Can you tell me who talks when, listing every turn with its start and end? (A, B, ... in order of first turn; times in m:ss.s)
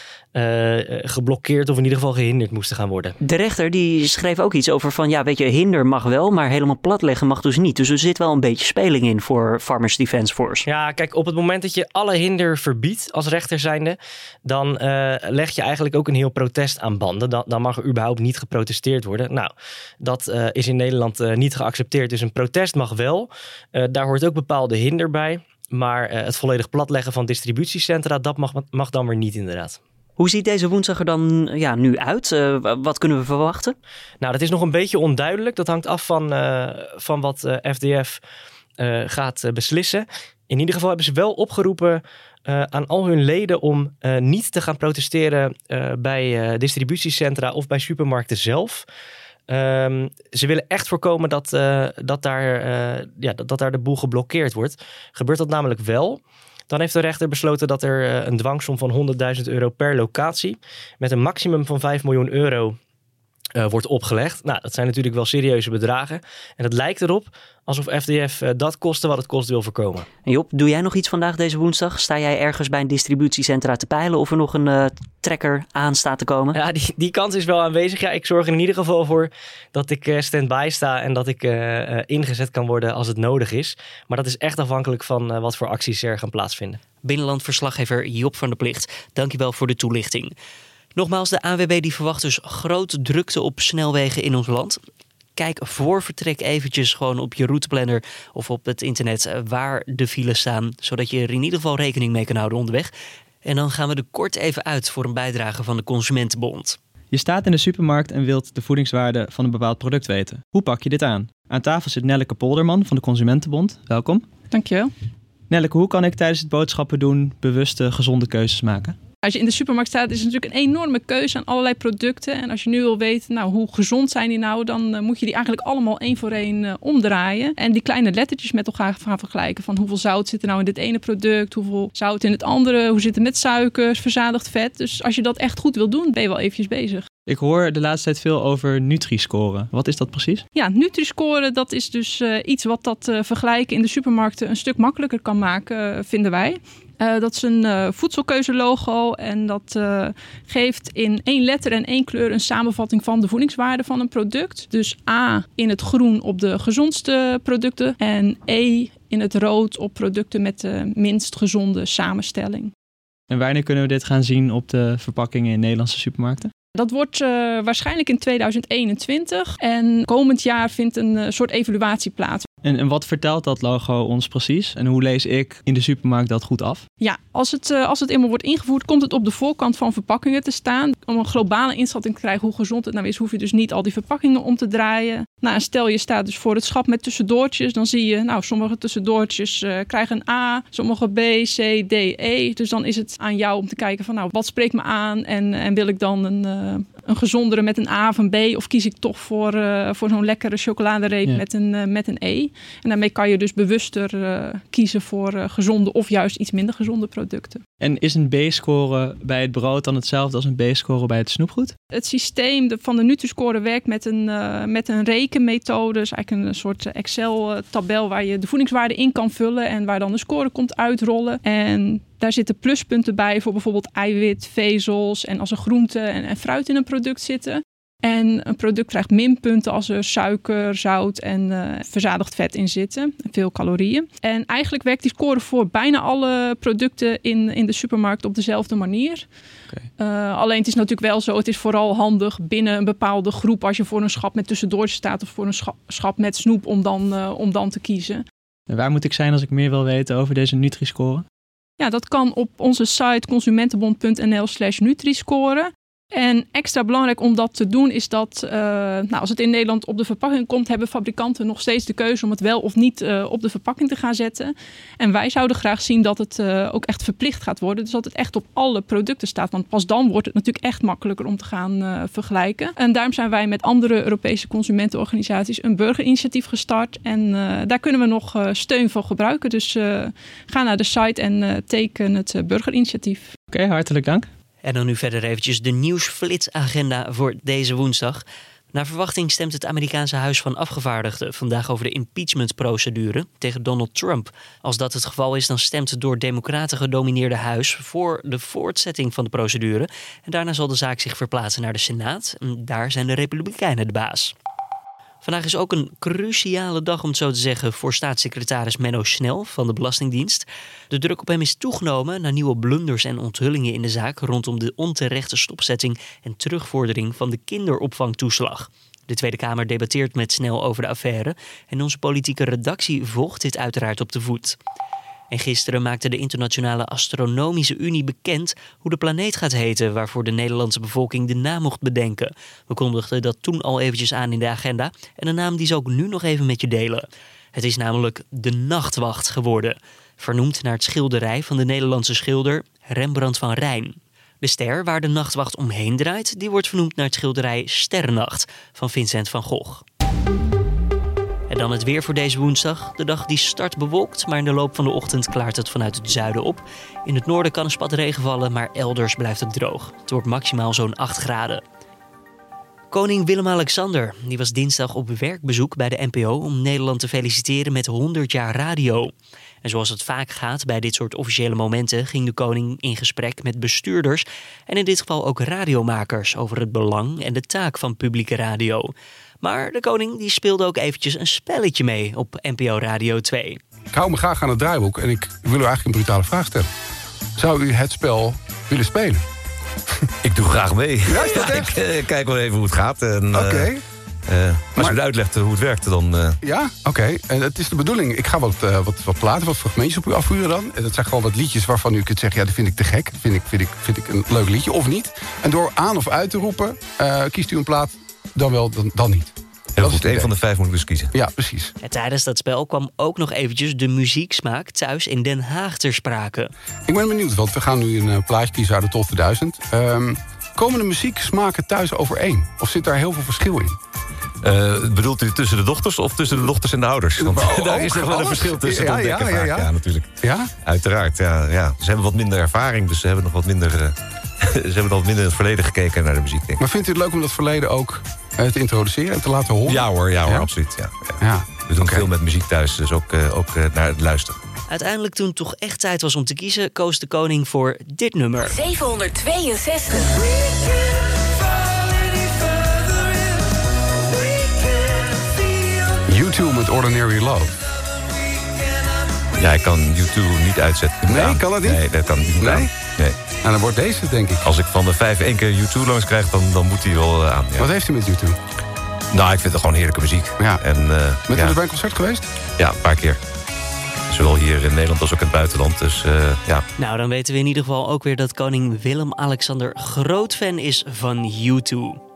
0:00.4-0:03.2 A
0:03.2-0:10.6 B
0:10.7-0:29.8 A
0:30.2-0:33.8 B
0:34.2-0:38.2 A
0:38.8-0:48.8 A
0:49.5-1:02.8 A
1:03.6-1:10.1 A
1:10.3-1:16.6 B
1:16.6-1:26.8 A
1:27.0-1:30.3 B
1:31.0-1:34.8 B
1:35.4-1:42.9 B
1:43.4-1:46.8 B
1:47.1-1:54.3 C
1:54.5-1:54.9 D
1:55.5-1:59.0 C
1:59.2-2:17.1 D
2:17.3-2:20.4 C
2:20.5-2:42.7 D
2:43.3-2:46.5 C
2:46.8-2:52.5 D
2:52.6-2:56.9 C
2:57.0-3:27.6 D
3:27.8-3:31.8 C
3:31.9-3:59.2 D
4:00.0-4:08.2 D
4:08.7-4:11.2 C
4:11.8-4:43.3 D
4:43.5-4:44.3 C
4:44.6-5:04.3 B
5:05.2-5:24.6 B
5:25.3-5:49.8 B
5:51.5-6:01.6 B
6:02.9-6:09.1 B
6:09.6-6:23.6 B
6:23.9-6:26.7 E
6:27.4-6:29.2 E
6:30.2-6:33.7 F
6:31.1-6:31.8 E
6:33.3-6:33.8 E
6:34.3-6:36.4 F
6:36.4-6:50.3 E
6:49.8-6:51.1 F
6:51.1-6:51.7 E
6:51.8-6:56.5 B
6:56.9-7:03.8 E
7:04.4-7:10.1 F
7:07.2-7:09.7 E
7:10.2-7:10.5 E
7:10.6-7:16.6 F
7:16.6-7:20.5 E
7:19.7-7:24.4 F
7:21.2-7:22.0 E
7:24.7-7:28.6 B
7:28.4-7:30.8 G
7:32.0-7:33.2 G
7:36.1-7:37.6 E
7:39.4-7:43.2 F
7:41.1-7:42.7 E
7:43.4-7:44.4 E
7:44.4-7:47.7 F
7:47.6-7:48.4 E
7:49.1-7:51.6 F
7:50.4-7:50.6 E
7:51.3-7:52.3 E
7:52.6-7:53.2 F
7:54.1-7:56.6 F
7:56.8-8:02.0 B